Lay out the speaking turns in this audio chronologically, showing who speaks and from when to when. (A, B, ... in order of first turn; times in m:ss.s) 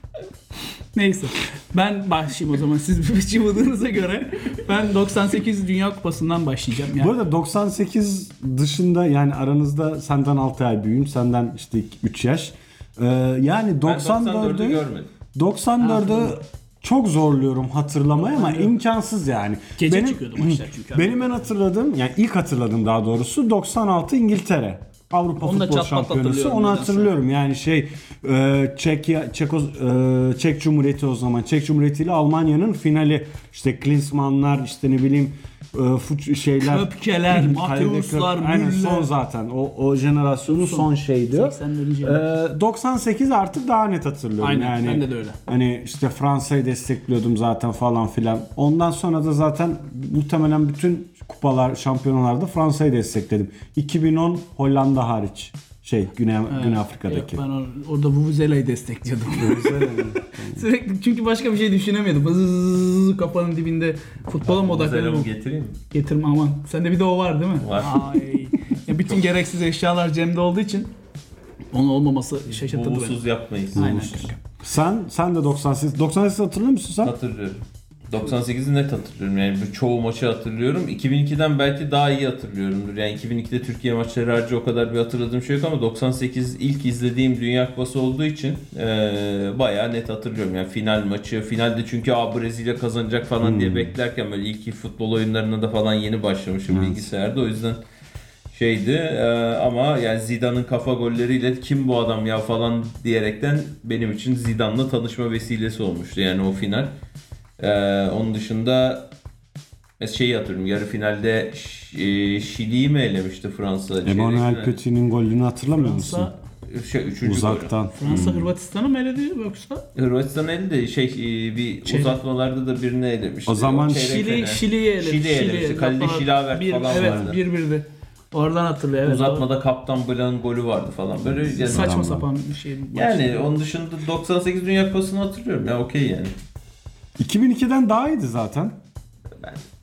0:01.0-0:07.1 A
0:07.0-0:57.4 B
0:13.8-0:15.1 C
0:15.8-0:16.4 A
0:18.3-0:18.7 A
0:19.8-0:21.4 A
0:25.4-0:27.1 A
0:36.6-0:39.1 A
0:40.5-0:42.3 A
0:44.4-0:45.4 A
0:56.5-1:05.3 A
0:59.4-1:00.6 B
1:04.4-1:05.8 C
1:05.9-1:10.9 A
1:07.6-1:08.1 C
1:11.7-1:13.2 A
1:12.5-1:14.3 C
1:13.7-1:14.4 A
1:13.8-1:17.1 B
1:17.0-1:37.8 C
1:33.4-1:33.9 B
1:36.7-1:37.0 B
1:38.5-1:47.0 C
1:47.6-1:49.1 C
1:50.0-1:54.8 C
1:54.0-1:56.3 B
1:55.8-1:56.4 A
1:56.7-1:58.2 C
1:57.2-1:58.5 B
1:58.0-1:59.8 A
2:00.0-2:07.4 C
2:01.8-2:02.2 A
2:03.5-2:04.2 B
2:03.9-2:09.4 A
2:06.9-2:07.3 B
2:09.0-2:11.9 C
2:11.4-2:12.2 B
2:11.5-2:13.5 A
2:12.9-2:16.4 C
2:17.2-2:18.8 B